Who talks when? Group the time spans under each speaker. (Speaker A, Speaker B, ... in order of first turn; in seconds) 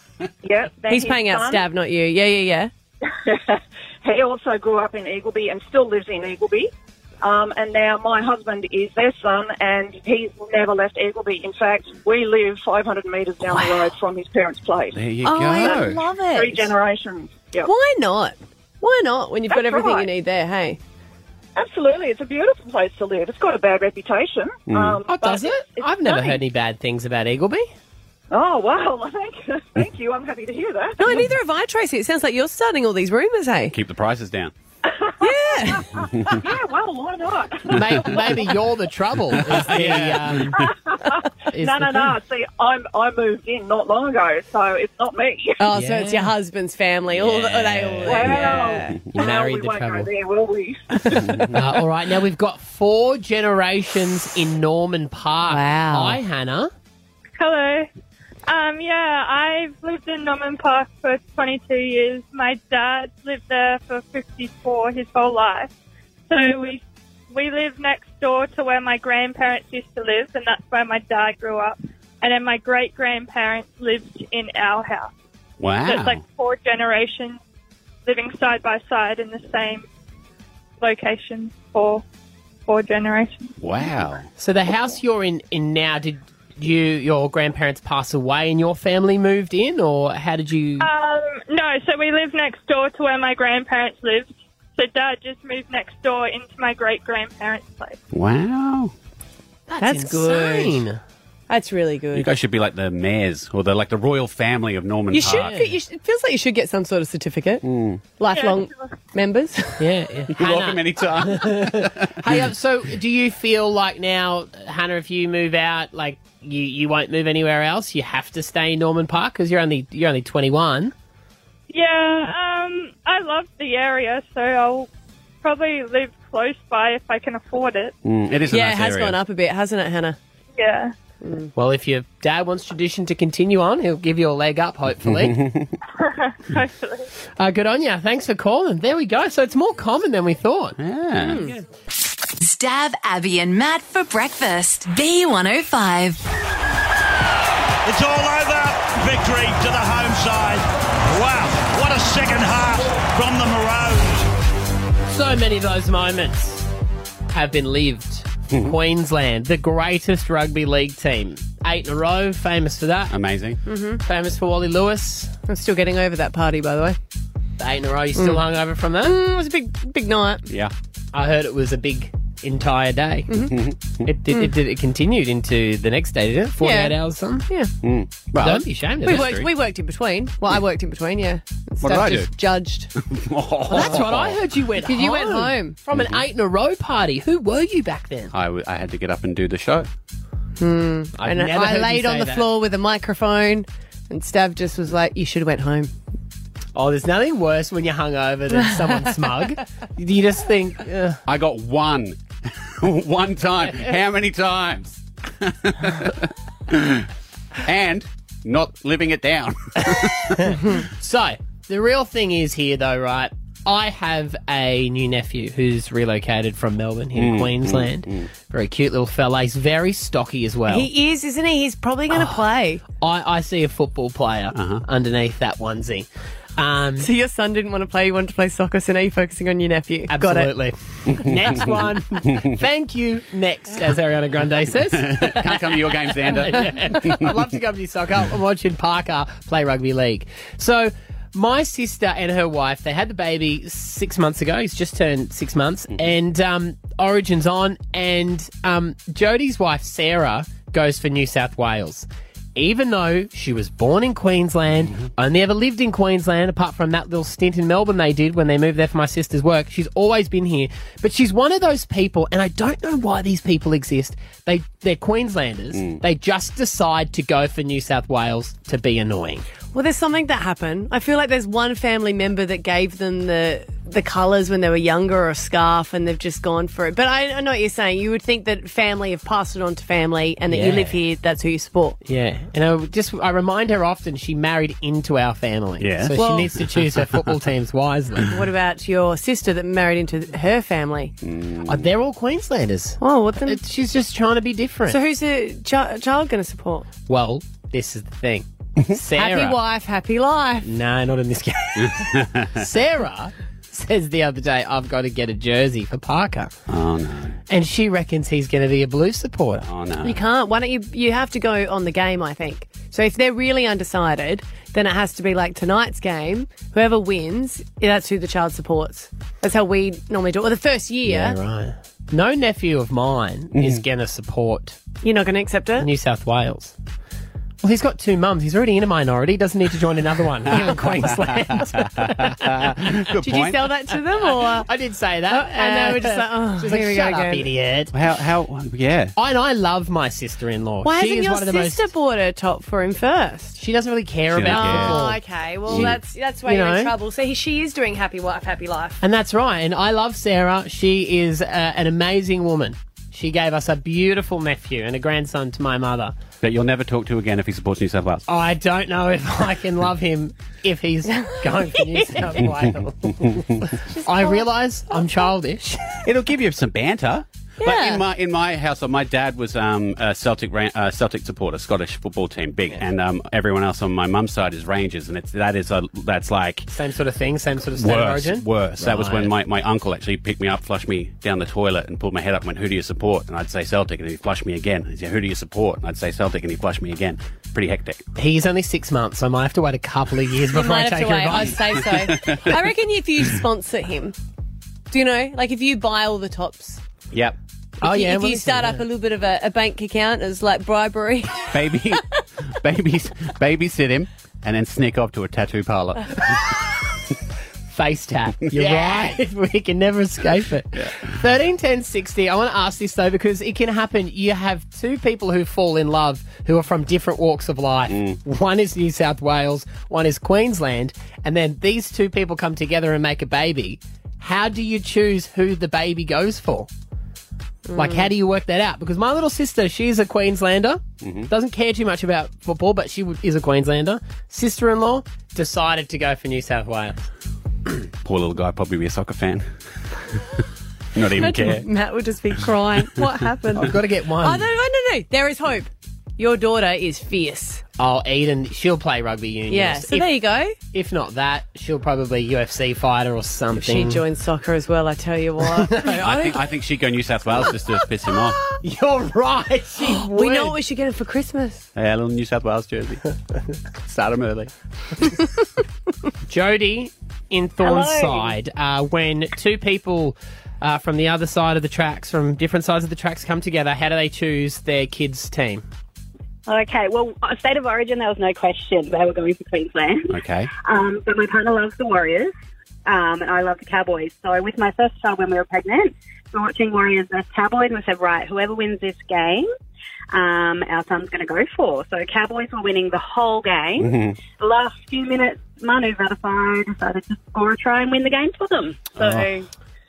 Speaker A: 0.4-1.6, 3.1-15.0, 15.5-17.7, 19.5-20.1, 21.6-26.4, 28.3-31.2, 34.8-38.4, 40.5-45.6, 48.0-50.8
Speaker B: 0.9-2.7, 13.5-13.9, 15.2-16.7, 17.6-20.8, 31.0-33.8, 35.2-35.9, 45.6-49.0, 55.5-56.2, 99.8-100.8, 101.5-102.3, 105.1-107.6, 108.2-109.8, 128.5-130.2, 131.2-131.5, 141.2-141.5, 163.7-164.0, 165.5-167.0, 168.2-168.4, 169.0-170.4, 173.3-173.5, 176.6-177.0, 179.1-182.9, 183.7-184.1, 184.8-185.8, 190.6-195.9, 220.7-222.8, 227.0-230.5, 269.7-282.0, 286.1-286.5, 288.3-291.1, 293.0-293.6, 294.9-296.9, 299.1-300.7, 310.0-321.4, 325.0-325.9, 333.2-334.7, 335.3-337.5, 340.8-343.6, 344.5-349.0, 361.1-362.4, 363.9-365.3, 367.6-368.0, 390.5-394.1, 394.9-396.8, 397.8-401.5, 427.7-428.1, 441.2-447.6, 449.5-450.6, 453.5-456.4, 459.8-461.7
Speaker C: 14.9-16.1, 24.7-25.0, 33.7-34.5, 36.1-36.4, 37.9-38.3, 39.3-40.7, 51.1-51.6, 75.6-76.2, 83.6-84.3, 98.1-98.9, 102.1-105.5, 107.6-108.0, 110.3-112.5, 128.0-129.2, 135.0-135.7, 140.8-141.6, 158.5-158.8, 163.1-163.6, 173.5-174.0, 177.8-179.5, 181.8-182.3, 183.0-184.4, 185.9-186.3, 188.3-189.9, 201.3-202.2, 202.8-207.1, 207.7-210.5, 217.2-218.3, 224.6-224.8, 231.2-231.8, 234.9-237.4, 265.7-266.0, 285.8-287.3, 291.2-291.9, 301.8-302.6, 306.7-307.4, 309.6-310.2, 323.6-323.8, 330.5-333.6, 337.9-339.1, 344.3-345.0, 345.7-346.0, 356.4-358.2, 366.1-376.7, 377.8-388.0, 392.1-392.5, 401.5-406.4, 408.6-409.1, 417.9-418.2, 431.0-431.3, 438.0-439.5, 440.9-441.7, 455.9-458.4, 461.8-463.0, 463.9-464.5, 480.1-480.5, 493.8-494.2, 498.9-499.4
Speaker D: 25.1-27.7, 37.7-40.7, 41.5-42.2, 45.7-46.3, 47.1-48.6, 49.1-50.1, 51.1-56.7, 84.4-90.9, 99.7-101.0, 105.3-105.7, 109.8-120.9, 131.6-135.4, 137.4-140.8, 155.1-156.7, 157.3-163.1, 164.0-165.3, 167.6-169.2, 171.1-173.5, 174.1-177.5, 178.4-179.4, 183.7-188.3, 191.2-192.5, 196.8-201.2, 203.7-203.9, 209.9-220.9, 222.1-222.4, 223.0-227.1, 230.1-269.4, 280.5-280.9, 282.1-288.4, 291.7-295.0, 297.1-299.6, 300.6-306.5, 307.5-309.7, 321.1-324.8, 325.8-326.7, 327.6-333.1, 334.2-337.9, 339.2-341.9, 343.6-345.9, 346.5-346.9, 349.0-356.1, 358.3-366.0, 376.7-379.3, 388.2-391.8, 397.8-398.8, 407.7-426.7, 427.8-437.0, 443.6-444.5, 447.8-450.1, 450.7-454.0, 455.5-456.0, 458.5-460.6, 466.3-475.6
Speaker E: 57.4-57.9, 58.5-65.7, 66.3-75.1, 75.9-77.4, 78.1-79.8, 80.8-82.0, 82.7-83.4, 90.8-98.0, 108.3-108.9, 121.7-124.9, 125.4-127.9, 130.6-130.9, 136.0-137.1
Speaker F: 142.4-146.2
Speaker G: 147.9-154.3
Speaker H: 467.6-468.3, 476.5-482.3, 482.9-489.5, 490.1-499.4